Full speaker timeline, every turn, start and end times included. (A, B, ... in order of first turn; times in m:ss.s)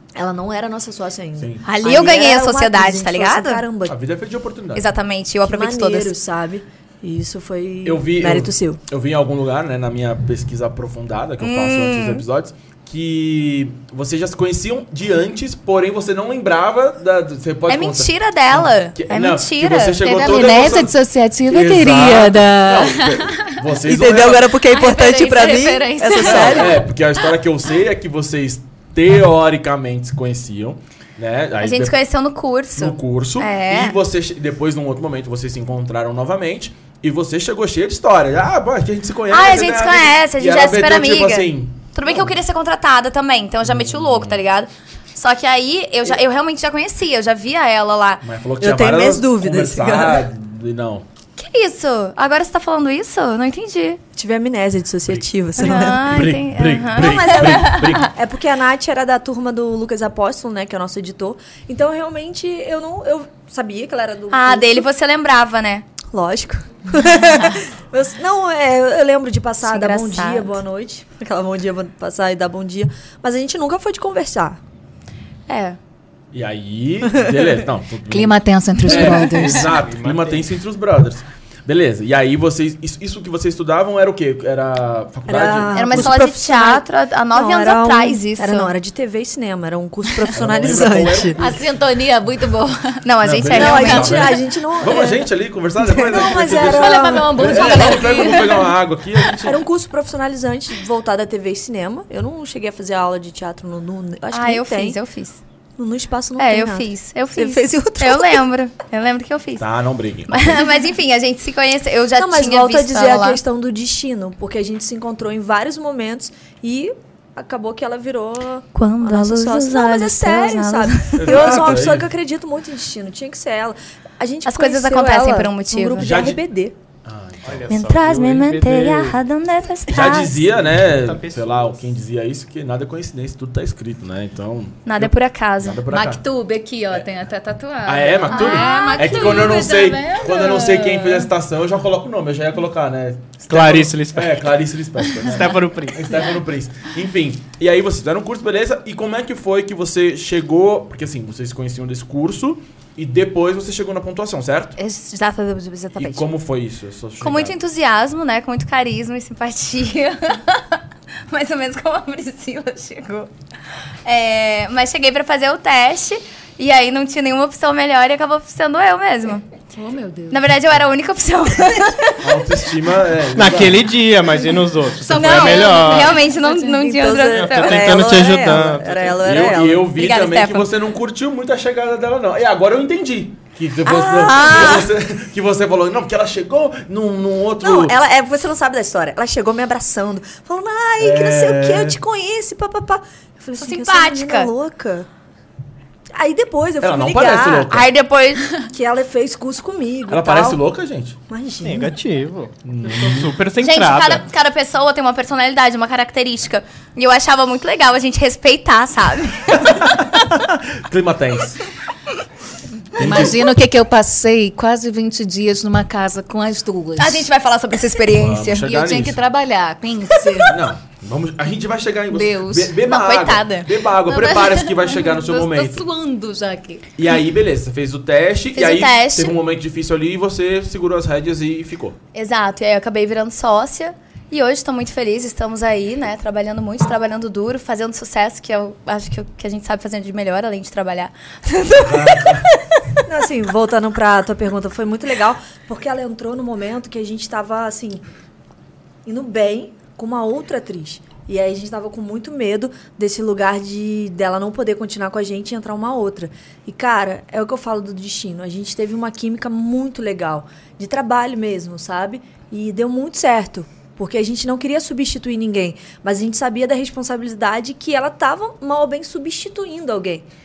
0:00.2-0:04.0 A
0:01.4-0:01.6 B
0:01.6-0:03.6 C
0:03.9-0:04.9 B
0:04.7-0:06.1 C
0:05.4-0:08.8 A
0:07.8-0:21.0 B
0:11.4-0:12.2 C
0:17.7-0:20.1 C
0:20.0-0:23.6 D
0:21.5-0:24.5 B
0:23.8-0:26.8 A
0:24.7-0:26.7 C
0:26.2-0:32.0 B
0:31.6-0:34.0 C
0:32.8-0:42.3 B
0:39.3-0:48.2 C
0:43.7-0:44.4 B
0:48.2-0:51.0 B
0:48.6-0:50.3 A
0:51.4-0:54.0 C
0:54.2-0:56.3 A
0:55.1-0:58.1 B
0:55.6-0:58.1 C
0:56.9-1:04.9 A
1:04.3-1:05.9 C
1:06.1-1:14.6 A
1:09.6-1:10.6 C
1:15.5-1:15.8 C
1:16.3-1:26.2 B
1:18.1-1:19.7 D
1:19.3-1:20.5 E
1:25.3-1:31.4 A
1:25.7-1:28.7 C
1:30.3-1:31.7 B
1:31.4-1:33.0 D
1:33.0-1:34.3 C
1:33.2-1:39.6 B
1:33.5-1:38.1 A
1:36.4-1:38.8 D
1:39.4-1:45.0 A
1:44.3-1:45.4 C
1:45.8-1:48.4 A
1:46.4-1:49.7 C
1:49.6-1:50.7 B
1:50.3-1:53.4 C
1:52.2-2:06.8 A
1:58.7-2:01.7 C
2:01.2-2:02.1 B
2:04.4-2:06.1 C
2:06.0-2:06.4 B
2:07.0-2:07.7 B
2:07.4-2:09.2 E
2:07.7-2:10.4 C
2:09.9-2:16.2 B
2:10.4-2:11.8 E
2:14.8-2:15.8 C
2:15.9-2:21.3 D
2:17.9-2:34.8 B
2:18.3-2:19.7 C
2:23.5-2:24.5 E
2:25.2-2:26.1 E
2:34.8-2:36.3 C
2:36.0-2:37.6 B
2:37.2-2:43.3 C
2:44.0-2:49.4 C
2:49.8-2:50.4 D
2:50.3-2:52.4 C
2:52.2-2:53.9 B
2:53.3-2:56.2 E
2:55.0-2:58.3 C
2:55.3-2:56.7 D
2:56.6-2:59.9 A
2:57.3-2:59.2 E
2:59.2-3:07.9 B
2:59.9-3:00.7 C
3:03.9-3:04.9 C
3:04.4-3:04.7 A
3:07.6-3:15.1 A
3:11.0-3:12.0 B
3:13.6-3:14.5 C
3:16.2-3:17.8 A
3:16.8-3:17.9 B
3:17.7-3:18.5 C
3:18.7-3:20.6 A
3:20.1-3:21.2 B
3:21.3-3:22.0 A
3:21.6-3:24.3 E
3:22.7-3:23.3 B
3:23.6-3:30.1 C
3:29.7-3:31.6 B
3:33.0-3:37.3 D
3:33.0-3:33.4 B
3:37.0-3:38.7 C
3:38.1-3:39.2 B
3:38.6-3:40.6 D
3:40.5-3:45.9 B
3:42.1-3:42.8 D
3:42.8-3:44.2 C
3:44.1-3:46.9 D
3:47.0-3:52.0 B
3:48.5-3:49.4 C
3:52.1-4:02.6 C
4:01.8-4:02.4 B
4:03.0-4:08.0 A
4:09.0-4:30.3 A